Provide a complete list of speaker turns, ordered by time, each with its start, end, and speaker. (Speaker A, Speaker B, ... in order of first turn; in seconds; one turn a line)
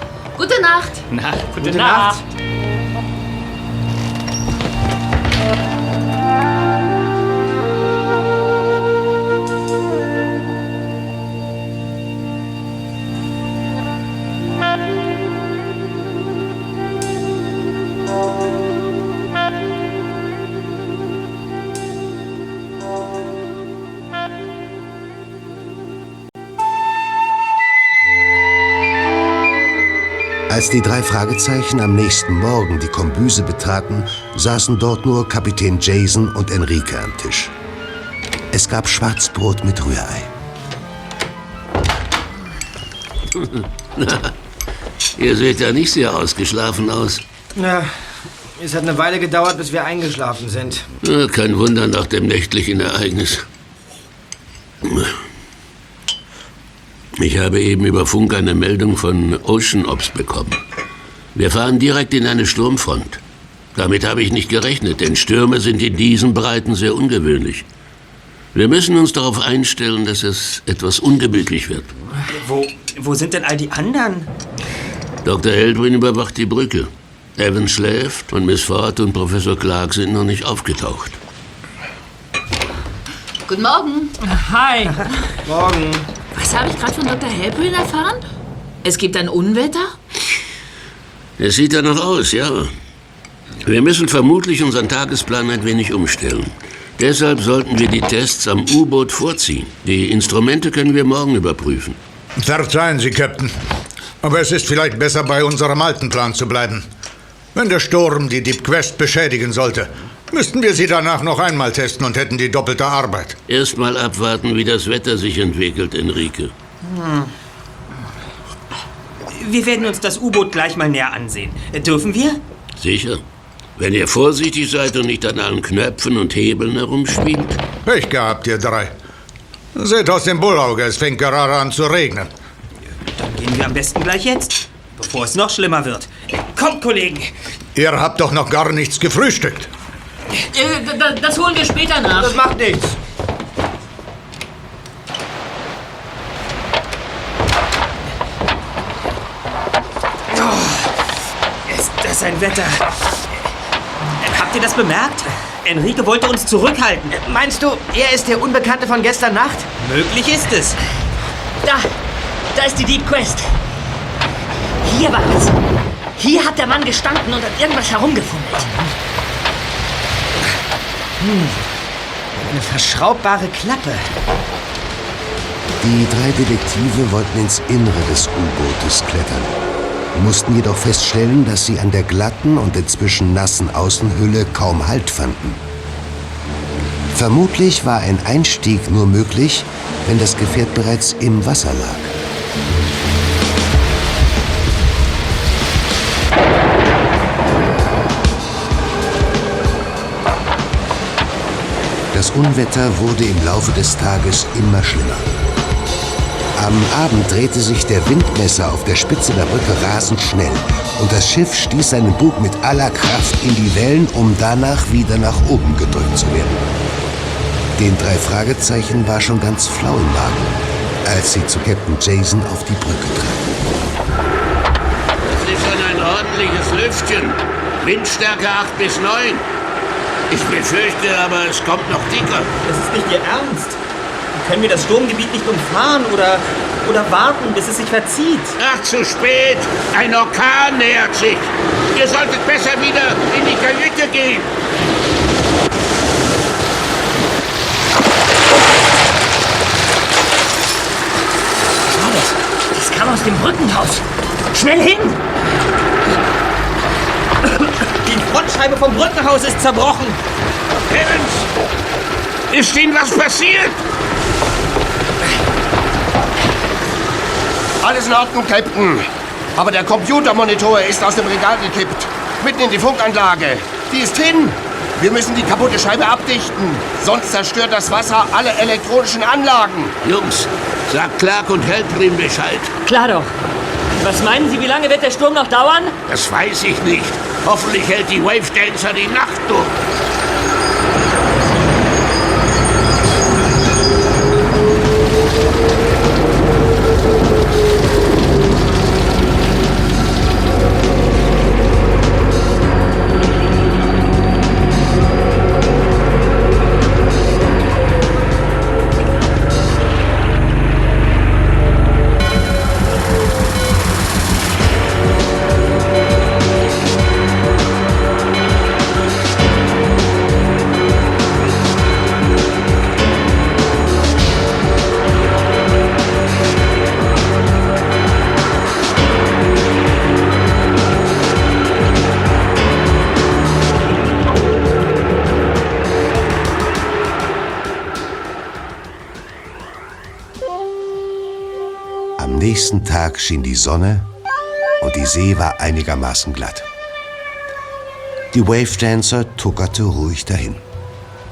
Speaker A: 0.4-1.1
Speaker B: 1.1-1.9
Speaker C: 1.6-2.2
Speaker D: 1.6-2.1
Speaker E: 30.5-37.5
Speaker E: 38.5-40.3
Speaker F: 43.4-44.3
Speaker F: 45.2-47.2
Speaker D: 47.5-50.9
Speaker F: 51.0-53.5
Speaker F: 54.8-55.1
Speaker F: 57.2-60.6
Speaker F: 61.4-63.2
Speaker F: 63.8-67.7
Speaker F: 68.5-72.0
Speaker B: 72.3-74.3
Speaker F: 75.2-81.2
Speaker A: 83.5-84.2
Speaker C: 84.3-85.0
Speaker D: 85.5-86.1
Speaker A: 86.3-88.2
Speaker A: 88.8-90.0
Speaker F: 91.4-92.7
Speaker F: 93.6-102.0
Speaker G: 102.4-103.6
Speaker G: 104.2-106.9
Speaker G: 107.5-113.4
Speaker F: 113.5-116.5
Speaker B: 116.8-117.3
Speaker B: 119.3-122.4
Speaker F: 122.8-123.2
Speaker F: 123.8-127.6
Speaker G: 127.8-129.0
Speaker G: 129.8-132.3
Speaker B: 133.2-137.3
Speaker G: 137.8-139.7
Speaker C: 140.5-142.4
Speaker D: 142.2-142.9
Speaker B: 150.3-150.9
Speaker B: 151.7-152.9
Speaker B: 154.2-157.2
Speaker D: 157.1-159.7
Speaker B: 159.8-160.8
Speaker C: 162.6-163.5
Speaker C: 164.8-165.6
Speaker C: 166.2-168.9
Speaker D: 171.2-171.6
Speaker D: 172.5-174.1
Speaker E: 175.8-179.5
Speaker E: 180.1-185.6
Speaker E: 187.1-192.1
Speaker E: 202.1-205.3
Speaker E: 206.6-216.7
Speaker E: 217.8-223.5
Speaker F: 225.2-229.5
Speaker F: 230.3-232.5
Speaker B: 232.7-233.8
Speaker B: 234.3-238.6
Speaker F: 238.6-244.5
Speaker C: 252.7-255.2
Speaker B: 258.0-260.2
Speaker F: 260.9-261.4
Speaker F: 262.5-263.8
Speaker H: 267.8-279.9
Speaker F: 280.0-282.7
Speaker C: 282.9-283.3
Speaker C: 283.9-286.0
Speaker F: 286.1-289.8
Speaker E: 342.2-344.1
Speaker E: 344.8-346.7
Speaker E: 348.3-350.6